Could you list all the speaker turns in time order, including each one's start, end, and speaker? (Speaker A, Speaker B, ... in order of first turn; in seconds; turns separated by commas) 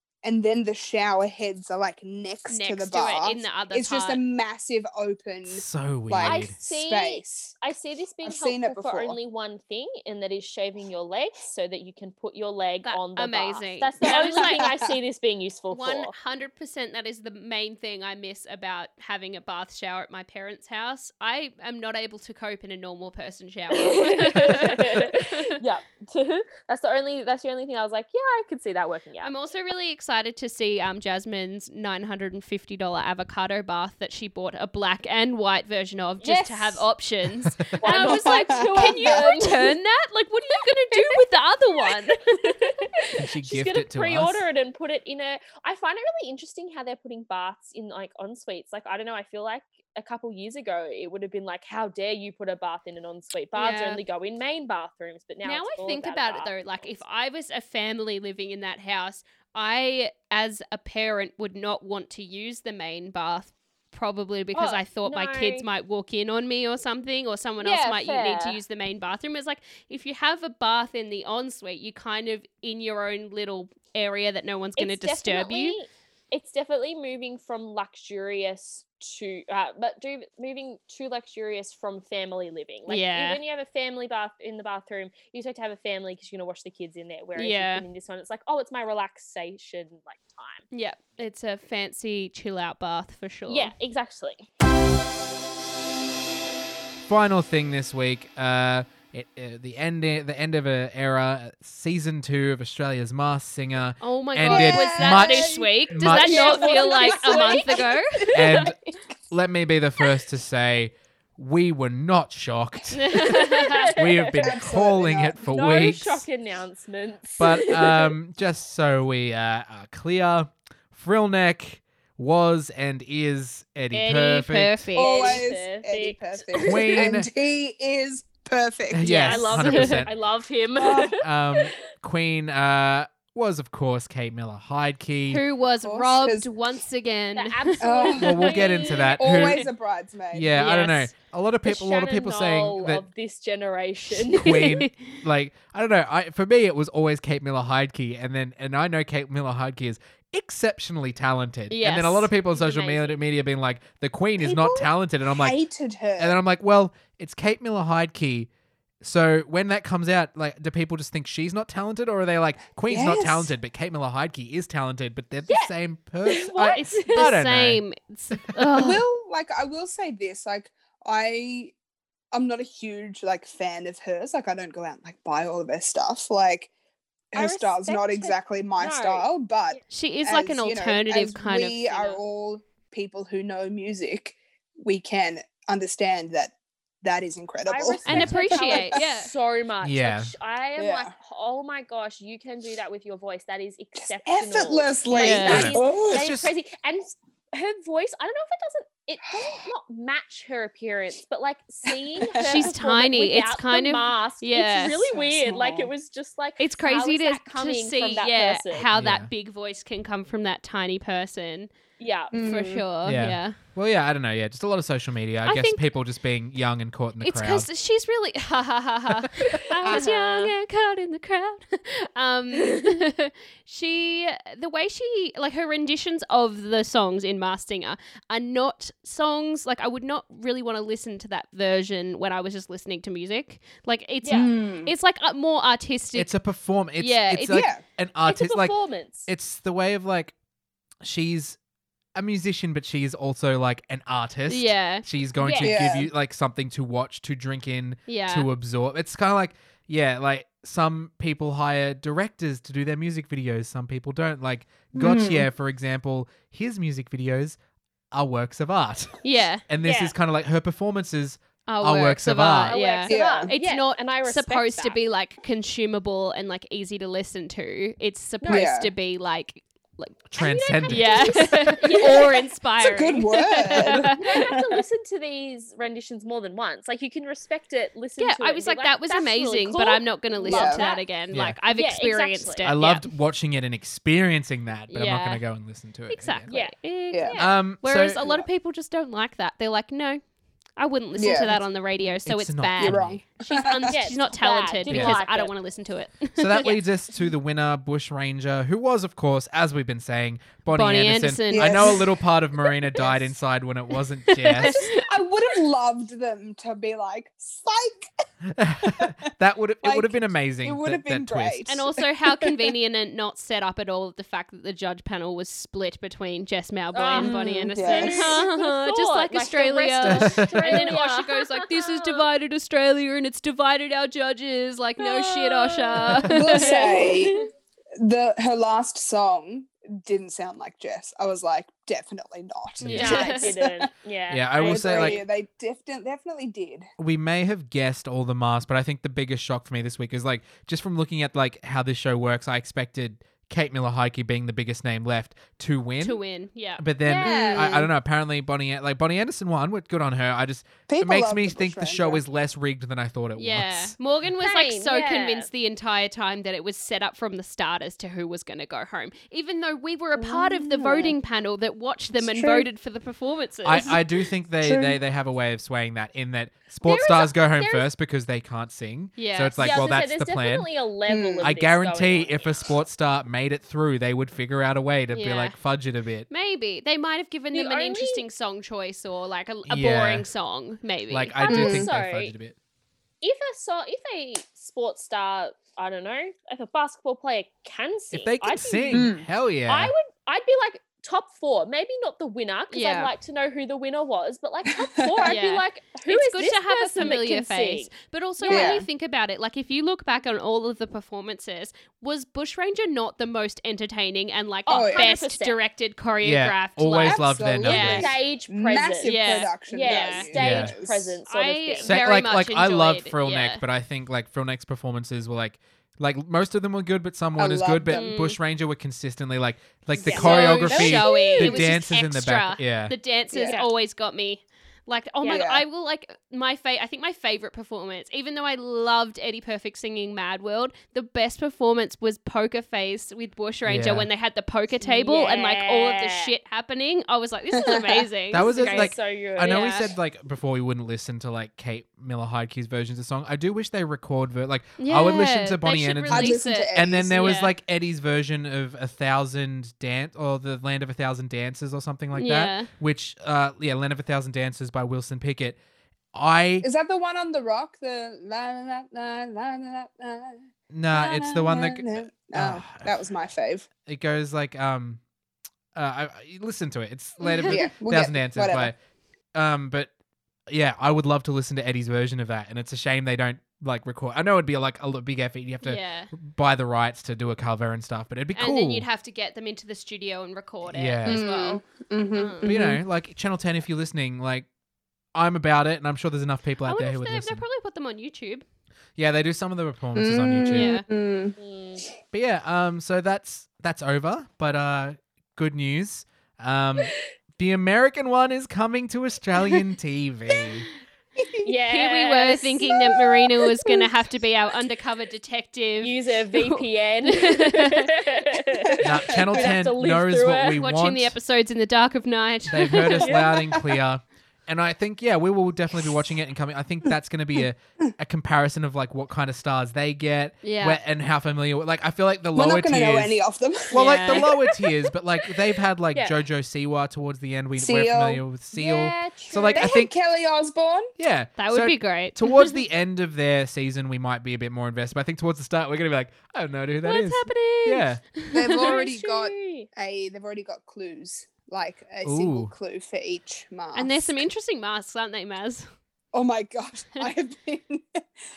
Speaker A: 0.2-7.5, Speaker B: 2.5-4.2, Speaker C: 5.5-6.5, Speaker D: 6.2-16.1, Speaker A: 8.2-9.2, Speaker B: 12.8-14.7, Speaker A: 14.0-15.0, Speaker B: 15.7-25.6, Speaker D: 23.7-29.3, Speaker B: 29.2-42.6, Speaker D: 36.2-36.9, Speaker D: 37.8-39.7, Speaker A: 38.0-39.2, Speaker D: 40.5-41.2, Speaker D: 41.8-57.0, Speaker C: 43.2-44.5, Speaker B: 53.6-54.0, Speaker B: 55.4-75.8, Speaker D: 64.5-65.7, Speaker D: 67.6-68.6, Speaker D: 74.8-90.7, Speaker B: 82.9-83.4, Speaker B: 87.4-87.8, Speaker B: 90.7-93.7, Speaker D: 93.5-94.5, Speaker C: 97.1-106.5, Speaker B: 104.0-108.2, Speaker A: 104.5-105.2, Speaker D: 104.5-108.8, Speaker A: 106.3-108.0, Speaker C: 108.3-108.8, Speaker C: 109.3-116.2, Speaker B: 112.9-113.9, Speaker D: 113.1-114.6, Speaker A: 114.4-115.9, Speaker D: 115.5-118.2, Speaker C: 117.4-124.8, Speaker B: 123.9-125.4, Speaker D: 125.0-127.0, Speaker A: 125.0-129.6, Speaker C: 126.6-127.3, Speaker C: 128.9-130.1, Speaker B: 129.0-130.0, Speaker D: 129.1-131.7, Speaker A: 130.8-131.2, Speaker C: 131.2-135.4, Speaker B: 135.3-138.1, Speaker A: 135.8-136.5, Speaker D: 137.3-139.7, Speaker A: 137.8-140.5, Speaker C: 138.1-139.7, Speaker C: 140.3-143.1, Speaker B: 140.6-141.1, Speaker D: 141.7-144.8, Speaker C: 144.1-155.6, Speaker B: 144.5-145.2, Speaker B: 151.7-152.3, Speaker D: 152.5-153.2, Speaker A: 154.4-156.4, Speaker C: 156.2-158.5, Speaker C: 159.0-167.8, Speaker A: 162.9-163.5, Speaker D: 166.2-167.3, Speaker B: 166.7-169.0, Speaker A: 168.7-171.8, Speaker A: 172.3-176.7, Speaker A: 177.3-189.0, Speaker D: 177.3-179.8, Speaker B: 179.9-182.2, Speaker D: 187.7-208.9, Speaker B: 188.1-189.3, Speaker C: 189.8-190.3, Speaker A: 190.8-191.1, Speaker A: 194.2-196.3, Speaker B: 195.1-195.8, Speaker C: 195.5-196.5, Speaker A: 199.3-199.7, Speaker A: 201.9-202.7, Speaker B: 202.4-205.1, Speaker A: 205.0-205.9, Speaker B: 206.6-211.7, Speaker C: 208.9-209.3, Speaker D: 212.0-212.3, Speaker A: 212.3-212.8, Speaker B: 212.3-213.6, Speaker C: 213.1-217.7, Speaker B: 215.4-215.8, Speaker B: 217.2-236.3, Speaker D: 219.7-220.5, Speaker A: 219.8-220.1, Speaker D: 222.5-223.0, Speaker D: 234.2-234.5, Speaker A: 234.3-234.9, Speaker C: 236.1-238.8, Speaker B: 237.0-237.7, Speaker A: 237.5-237.8, Speaker D: 238.2-239.3, Speaker C: 239.3-240.3, Speaker C: 241.0-241.6, Speaker C: 242.2-257.6, Speaker B: 244.5-245.1, Speaker D: 245.4-246.0, Speaker A: 245.6-246.1, Speaker B: 248.1-248.5, Speaker A: 254.9-255.5, Speaker C: 258.1-262.8, Speaker B: 259.2-259.6, Speaker D: 259.8-260.1, Speaker B: 261.7-274.2, Speaker D: 262.7-265.0, Speaker A: 263.1-263.5, Speaker D: 268.4-268.7, Speaker A: 268.5-268.9, Speaker C: 270.3-271.3, Speaker D: 270.4-272.5, Speaker A: 272.0-274.8, Speaker D: 273.6-281.1, Speaker B: 278.2-283.1, Speaker A: 280.5-280.8, Speaker C: 281.3-281.6, Speaker D: 281.7-282.7, Speaker C: 282.6-286.5, Speaker B: 284.9-285.4, Speaker B: 286.1-290.2, Speaker D: 286.5-287.5, Speaker C: 287.4-288.2, Speaker A: 288.2-288.5, Speaker B: 290.8-296.7, Speaker A: 291.2-291.6, Speaker C: 292.3-293.2, Speaker A: 292.8-294.0, Speaker D: 293.9-295.5, Speaker C: 294.9-295.2, Speaker C: 296.4-304.8, Speaker B: 300.7-302.0, Speaker A: 301.5-302.2, Speaker B: 304.2-305.1, Speaker A: 304.6-308.2, Speaker C: 308.5-311.7, Speaker A: 308.8-309.2, Speaker A: 309.8-312.7, Speaker B: 311.7-327.4, Speaker D: 316.9-322.3, Speaker A: 317.2-318.4, Speaker C: 320.0-320.7, Speaker D: 325.0-327.5, Speaker A: 326.3-327.4, Speaker A: 328.0-333.9, Speaker C: 332.8-333.1, Speaker D: 332.9-335.3, Speaker B: 333.0-333.5, Speaker C: 334.3-335.2, Speaker A: 334.6-336.9, Speaker C: 337.0-346.2, Speaker B: 346.0-346.8, Speaker C: 346.8-353.9, Speaker D: 347.1-347.8, Speaker A: 347.2-347.9, Speaker A: 350.9-352.2, Speaker B: 353.4-364.0, Speaker D: 354.4-355.5, Speaker A: 360.2-361.1, Speaker A: 362.2-362.7, Speaker C: 363.6-370.7, Speaker A: 364.6-365.0, Speaker D: 366.9-367.9, Speaker B: 369.2-369.8, Speaker D: 369.6-372.5, Speaker A: 371.1-371.5, Speaker C: 371.4-376.3, Speaker B: 375.1-375.6, Speaker B: 376.3-381.4, Speaker D: 377.5-378.2, Speaker C: 379.7-380.3, Speaker C: 381.1-382.6, Speaker D: 381.4-382.3, Speaker A: 381.5-381.9, Speaker D: 383.2-389.1, Speaker C: 388.1-389.9, Speaker A: 388.9-389.3, Speaker D: 389.7-398.8, Speaker B: 392.7-393.1, Speaker B: 395.2-408.0, Speaker A: 398.5-398.9, Speaker D: 404.7-405.6, Speaker A: 404.7-405.1, Speaker C: 406.2-408.1, Speaker A: 407.0-411.2, Speaker D: 407.6-409.1, Speaker B: 409.0-410.3, Speaker D: 409.7-412.0, Speaker C: 410.4-410.7, Speaker B: 411.3-413.6, Speaker C: 411.8-422.9, Speaker A: 417.4-418.1, Speaker B: 417.9-418.4, Speaker A: 419.9-421.0, Speaker D: 420.0-421.7, Speaker B: 420.2-438.9, Speaker A: 423.3-423.6, Speaker A: 425.3-425.6, Speaker C: 433.6-434.1, Speaker D: 434.8-436.3, Speaker A: 437.6-438.1, Speaker C: 438.3-455.6, Speaker D: 438.4-439.8, Speaker B: 439.5-439.9, Speaker B: 444.8-447.5, Speaker A: 446.1-447.3, Speaker B: 452.1-452.7, Speaker C: 456.1-456.7, Speaker A: 456.6-463.7, Speaker C: 460.7-462.9, Speaker C: 463.8-465.0, Speaker C: 465.7-468.8, Speaker B: 467.2-467.6, Speaker A: 467.4-468.7, Speaker C: 469.3-469.9, Speaker C: 470.5-478.9, Speaker B: 475.6-476.1, Speaker B: 478.4-481.6, Speaker C: 480.7-481.3, Speaker A: 481.1-482.8, Speaker B: 482.1-482.5, Speaker C: 482.4-484.5, Speaker C: 485.1-487.4, Speaker B: 486.6-488.4, Speaker C: 489.0-490.8, Speaker A: 489.9-491.4, Speaker B: 490.5-490.9, Speaker D: 491.4-491.8, Speaker C: 492.1-500.7, Speaker A: 501.2-501.5, Speaker D: 501.4-503.0, Speaker B: 501.6-507.9, Speaker D: 505.8-510.6, Speaker A: 508.7-509.5, Speaker C: 508.8-511.2, Speaker B: 510.6-513.1, Speaker C: 512.5-523.2, Speaker D: 512.8-513.5, Speaker B: 520.4-520.8, Speaker A: 522.3-524.5, Speaker C: 523.7-529.9, Speaker B: 523.7-524.3, Speaker A: 527.6-528.2, Speaker D: 528.5-529.8, Speaker A: 529.5-530.9, Speaker C: 531.0-538.0, Speaker B: 531.4-532.5, Speaker B: 536.8-538.8, Speaker A: 538.3-544.3, Speaker D: 538.6-539.7, Speaker C: 542.0-542.5, Speaker B: 543.8-545.7, Speaker A: 546.1-548.0